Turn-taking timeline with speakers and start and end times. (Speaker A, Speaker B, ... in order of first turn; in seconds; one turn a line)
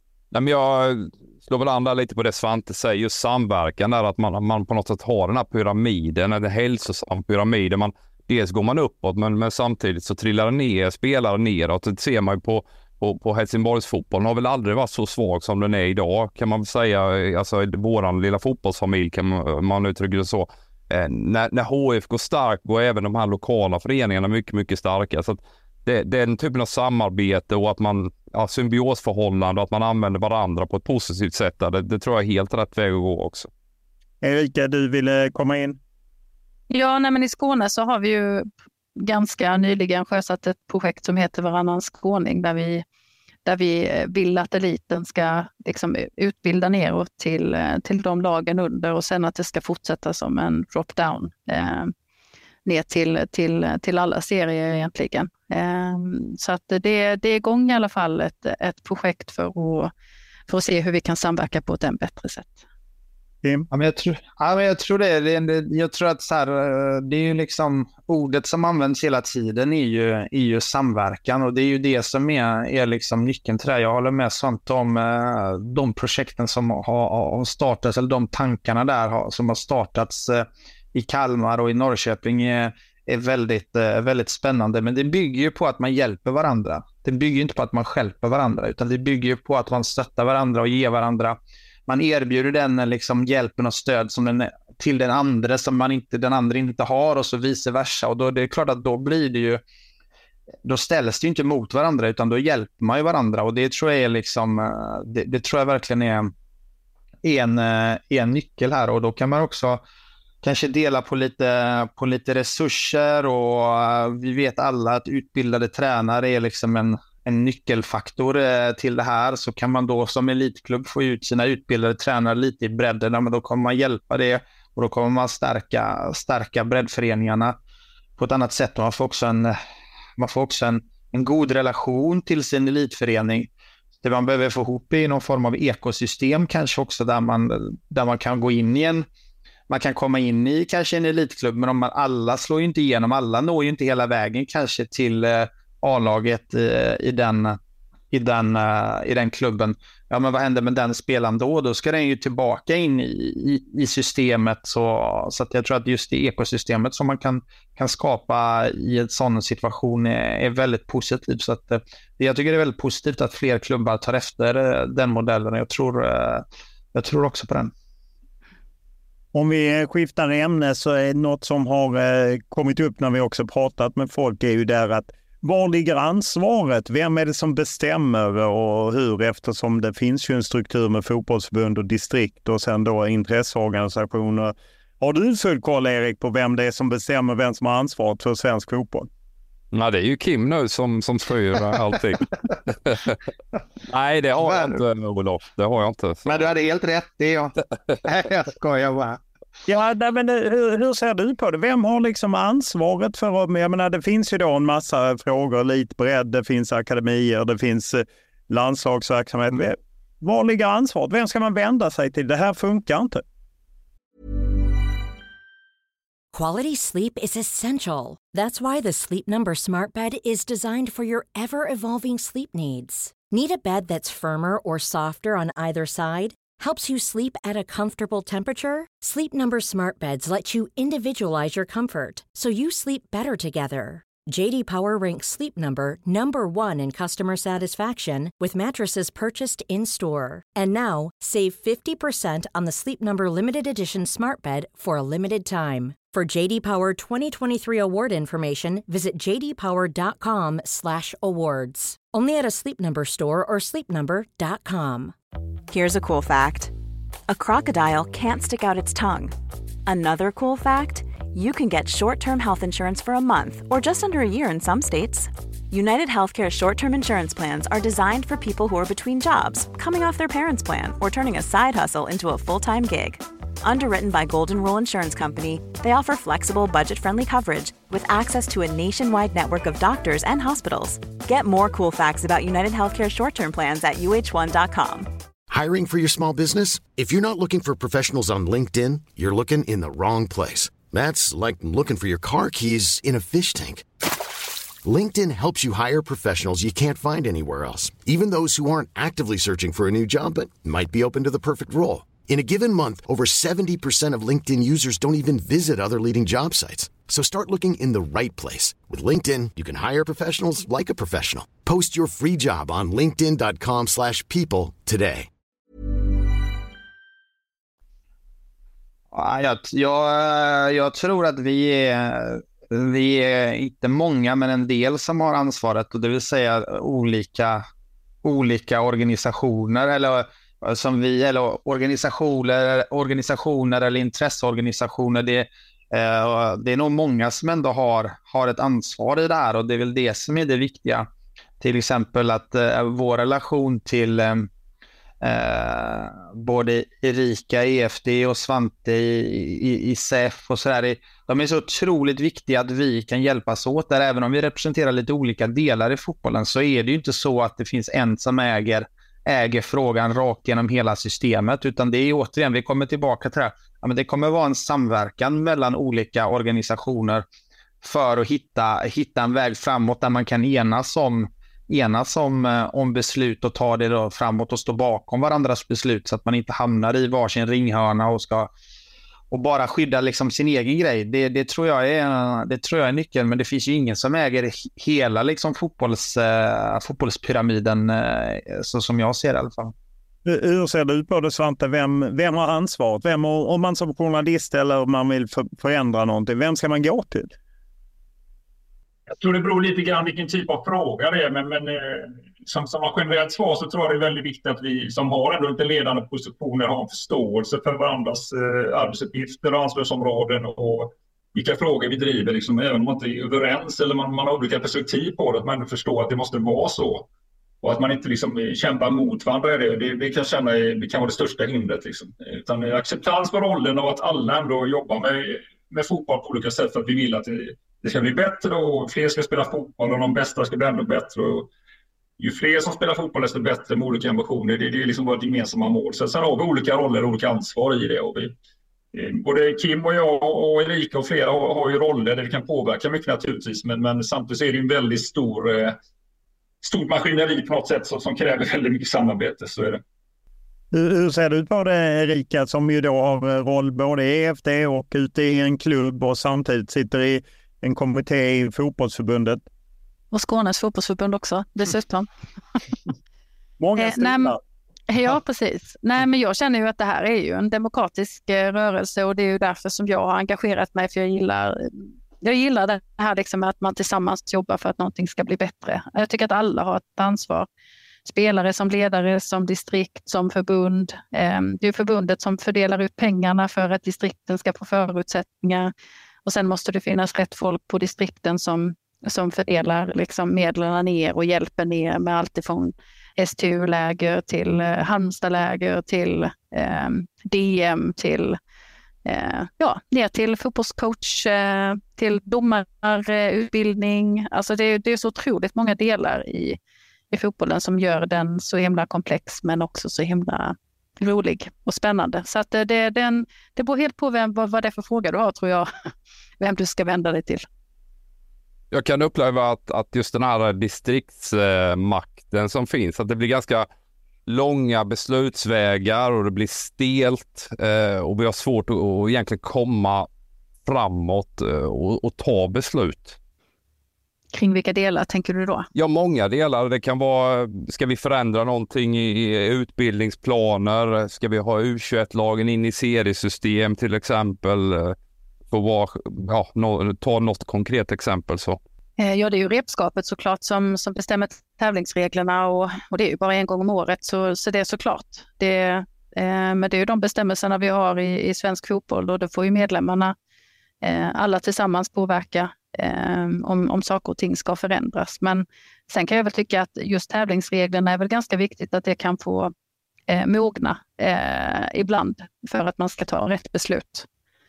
Speaker A: 0.3-33.5
Speaker B: 34.2-35.8
Speaker C: 36.7-42.8
Speaker C: 43.5-51.9
Speaker C: 52.7-59.9
Speaker C: 60.5-62.6
Speaker D: 63.7-99.6
Speaker D: 100.6-106.3
Speaker D: 107.2-109.8
Speaker D: 110.4-127.6
Speaker D: 128.2-129.6
Speaker D: 130.2-133.5
Speaker D: 134.0-139.1
Speaker D: 139.7-147.6
Speaker D: 148.1-167.7
Speaker B: 169.3-189.1
Speaker A: 189.7-193.2
Speaker A: 193.9-196.4
Speaker D: 194.4-194.8
Speaker D: 196.3-199.2
Speaker B: 199.7-213.2
Speaker E: 216.3-255.2
Speaker F: 255.7-256.7
Speaker F: 257.3-259.4
Speaker F: 259.9-285.1
Speaker G: 285.5-293.9
Speaker G: 294.8-315.3
Speaker D: 319.1-327.6
Speaker D: 328.2-341.1
Speaker D: 341.6-344.5
Speaker D: 345.2-367.2
Speaker D: 367.8-378.5
Speaker D: 379.3-389.7
Speaker B: 390.2-397.3
Speaker H: 399.1-417.1
Speaker H: 417.6-431.5
Speaker H: 432.2-438.3
Speaker H: 438.9-445.8
Speaker H: 446.6-449.8
Speaker B: 450.7-459.4
Speaker C: 460.1-462.1
Speaker B: 463.6-464.4
Speaker C: 463.8-464.4
Speaker C: 464.9-477.5
Speaker C: 478.1-485.7
Speaker C: 486.2-498.4
Speaker C: 499.1-506.6
Speaker C: 507.1-515.7
Speaker C: 516.4-517.5
Speaker A: 518.7-523.7
Speaker A: 524.3-530.1
Speaker A: 530.7-533.2
Speaker C: 534.3-535.7
Speaker A: 535.7-545.0
Speaker A: 545.5-548.6
Speaker C: 549.0-560.1
Speaker C: 560.8-569.5
Speaker C: 570.1-574.1